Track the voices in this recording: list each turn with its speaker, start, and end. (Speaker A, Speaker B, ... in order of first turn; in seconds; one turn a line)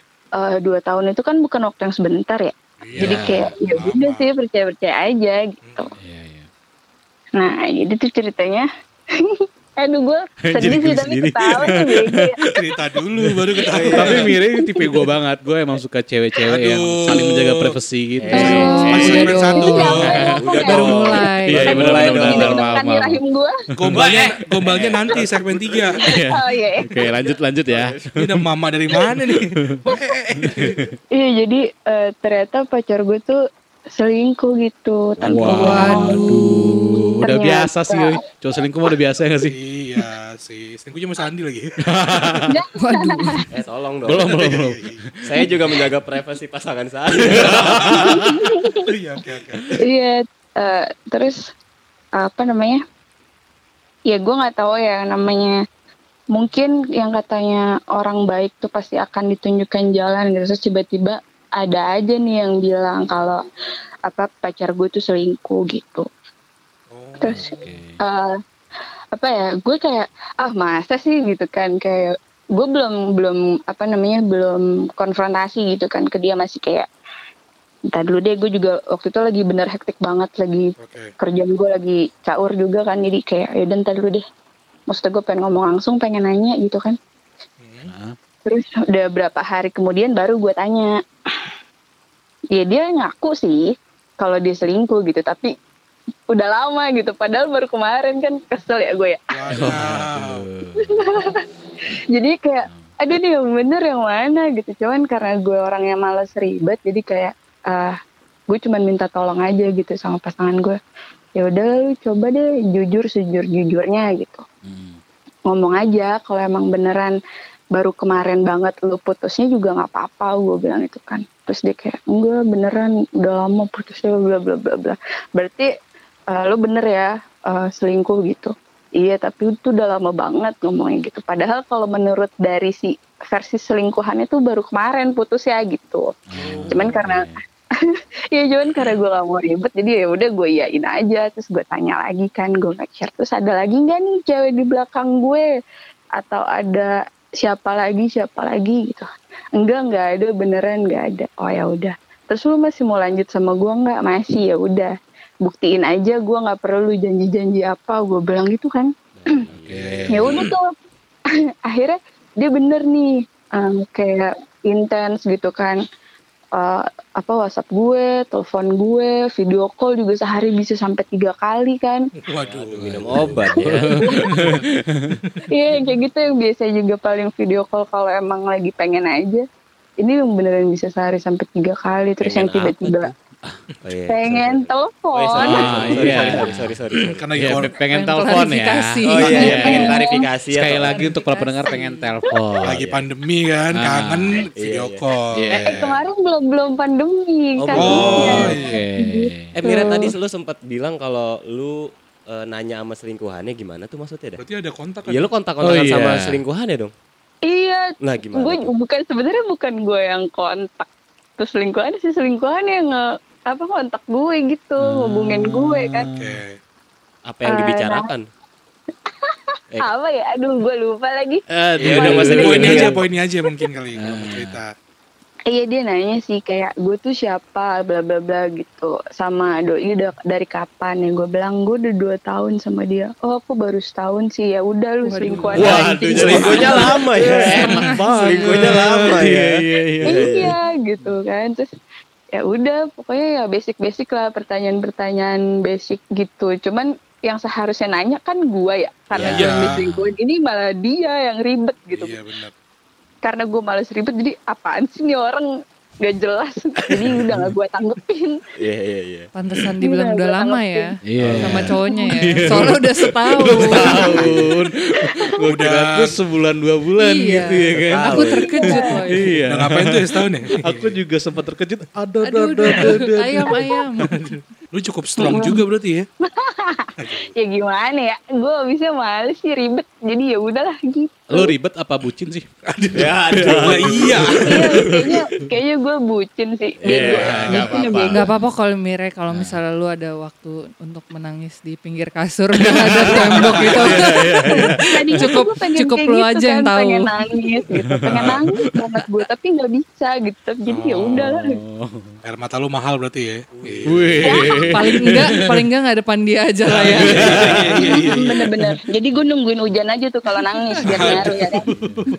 Speaker A: 0.4-5.9
Speaker B: 2.8-4.3
Speaker C: 2.9-3.8
Speaker B: 5.6-5.9
Speaker C: 6.0-6.5
Speaker A: 7.4-12.4
Speaker C: 10.5-12.5
Speaker B: 12.5-14.3
Speaker C: 13.5-18.8
Speaker D: 13.7-14.2
Speaker A: 14.0-14.8
Speaker B: 16.5-17.8
Speaker D: 18.2-19.7
Speaker E: 18.3-22.3
Speaker A: 18.4-23.5
Speaker B: 18.9-20.4
Speaker C: 20.1-20.4
Speaker D: 20.4-22.6
Speaker C: 21.4-23.2
Speaker B: 23.8-26.0
Speaker C: 23.8-24.2
Speaker D: 23.9-25.9
Speaker C: 26.0-28.4
Speaker A: 26.3-26.9
Speaker D: 26.9-28.1
Speaker B: 28.1-30.9
Speaker C: 30.4-30.9
Speaker A: 31.1-33.4
Speaker A: 33.9-36.1
Speaker C: 35.2-39.5
Speaker D: 35.2-35.5
Speaker E: 35.6-36.7
Speaker A: 37.2-38.2
Speaker B: 39.5-42.4
Speaker C: 41.9-42.5
Speaker A: 42.5-43.2
Speaker E: 42.8-43.5
Speaker D: 43.5-44.4
Speaker C: 44.1-45.7
Speaker B: 44.1-45.0
Speaker D: 45.2-48.1
Speaker C: 47.2-48.4
Speaker B: 47.3-49.8
Speaker A: 48.0-48.8
Speaker A: 49.8-51.4
Speaker A: 52.2-52.8
Speaker A: 54.1-55.5
Speaker A: 56.3-63.4
Speaker A: 64.1-66.1
Speaker B: 66.9-67.6
Speaker A: 67.2-68.4
Speaker C: 67.3-68.0
Speaker A: 69.1-76.9
Speaker A: 77.9-84.2
Speaker B: 80.8-81.1
Speaker A: 84.9-87.0
Speaker B: 87.6-87.9
Speaker C: 87.8-88.2
Speaker A: 88.5-90.9
Speaker A: 92.5-93.6
Speaker A: 94.2-95.5
Speaker A: 96.3-99.7
Speaker B: 99.3-100.5
Speaker C: 99.5-101.2
Speaker A: 100.8-101.4
Speaker A: 102.1-108.0
Speaker C: 102.6-102.9
Speaker A: 108.5-110.8
Speaker A: 111.4-114.4
Speaker C: 114.6-115.0
Speaker A: 115.5-117.2
Speaker A: 117.7-125.7
Speaker A: 126.3-136.1
Speaker C: 136.3-137.4
Speaker B: 136.5-136.9
Speaker A: 136.7-137.3
Speaker A: 137.9-145.5
Speaker A: 146.2-154.9
Speaker A: 155.4-159.4
Speaker D: 159.2-160.2
Speaker C: 159.5-160.5
Speaker B: 159.7-160.3
Speaker A: 160.1-160.7
Speaker A: 161.7-165.8
Speaker A: 166.6-172.0
Speaker B: 172.2-173.6
Speaker D: 172.4-174.3
Speaker C: 172.8-175.2
Speaker B: 174.2-174.6
Speaker B: 175.2-175.4
Speaker A: 175.5-179.4
Speaker A: 180.0-183.1
Speaker D: 182.2-183.1
Speaker D: 183.8-187.2
Speaker A: 184.1-186.4
Speaker C: 185.4-186.8
Speaker B: 187.0-187.8
Speaker C: 187.3-189.9
Speaker E: 187.9-190.1
Speaker D: 189.1-191.1
Speaker B: 189.3-189.6
Speaker A: 189.5-190.2
Speaker C: 190.5-192.8
Speaker E: 190.8-192.1
Speaker B: 192.6-195.7
Speaker D: 192.7-193.1
Speaker C: 193.8-194.4
Speaker D: 194.6-196.0
Speaker C: 195.4-195.8
Speaker A: 195.6-200.1
Speaker C: 197.6-199.6
Speaker B: 197.7-198.8
Speaker D: 197.9-198.5
Speaker D: 199.6-204.4
Speaker B: 204.4-205.3
Speaker D: 205.1-206.9
Speaker C: 205.6-206.4
Speaker A: 207.5-210.9
Speaker D: 208.0-208.7
Speaker A: 211.4-216.1
Speaker C: 214.8-216.4
Speaker B: 216.1-216.6
Speaker D: 217.2-218.2
Speaker A: 217.4-218.0
Speaker A: 219.2-221.4
Speaker C: 221.5-222.9
Speaker D: 221.8-223.0
Speaker A: 221.9-223.0
Speaker B: 221.9-224.7
Speaker C: 224.0-224.6
Speaker A: 225.5-236.8
Speaker E: 235.0-235.9
Speaker C: 235.5-240.2
Speaker D: 235.6-240.5
Speaker B: 236.2-236.8
Speaker E: 237.6-238.7
Speaker A: 240.1-241.7
Speaker A: 242.3-252.2
Speaker D: 249.2-249.4
Speaker C: 249.2-250.2
Speaker B: 249.2-249.8
Speaker B: 251.9-252.5
Speaker A: 253.2-255.5
Speaker A: 256.0-258.4
Speaker C: 257.0-257.5
Speaker D: 258.6-259.3
Speaker E: 259.3-264.2
Speaker A: 259.8-260.9
Speaker C: 261.1-273.8
Speaker D: 261.2-261.7
Speaker A: 261.9-262.2
Speaker D: 263.5-264.5
Speaker A: 263.8-264.0
Speaker B: 265.4-266.2
Speaker E: 267.0-269.3
Speaker D: 267.8-268.8
Speaker A: 268.4-269.0
Speaker B: 269.4-270.9
Speaker E: 272.2-274.3
Speaker B: 274.1-276.1
Speaker A: 275.2-275.6
Speaker A: 276.2-281.5
Speaker B: 277.0-277.2
Speaker C: 281.3-285.2
Speaker B: 282.7-284.7
Speaker D: 282.9-284.6
Speaker A: 284.5-288.2
Speaker D: 286.8-287.4
Speaker C: 286.8-288.4
Speaker B: 287.2-287.7
Speaker E: 288.1-294.6
Speaker C: 289.3-289.6
Speaker C: 292.6-295.3
Speaker B: 293.1-294.1
Speaker A: 294.5-301.6
Speaker E: 295.2-297.4
Speaker C: 297.9-298.7
Speaker B: 298.1-298.4
Speaker B: 300.7-301.2
Speaker C: 301.1-302.1
Speaker B: 302.2-305.4
Speaker D: 303.6-304.7
Speaker C: 303.9-305.6
Speaker E: 304.6-307.3
Speaker B: 306.7-308.4
Speaker C: 306.8-308.8
Speaker D: 307.2-307.6
Speaker A: 307.8-311.6
Speaker E: 310.4-311.1
Speaker B: 310.8-312.0
Speaker C: 310.9-312.1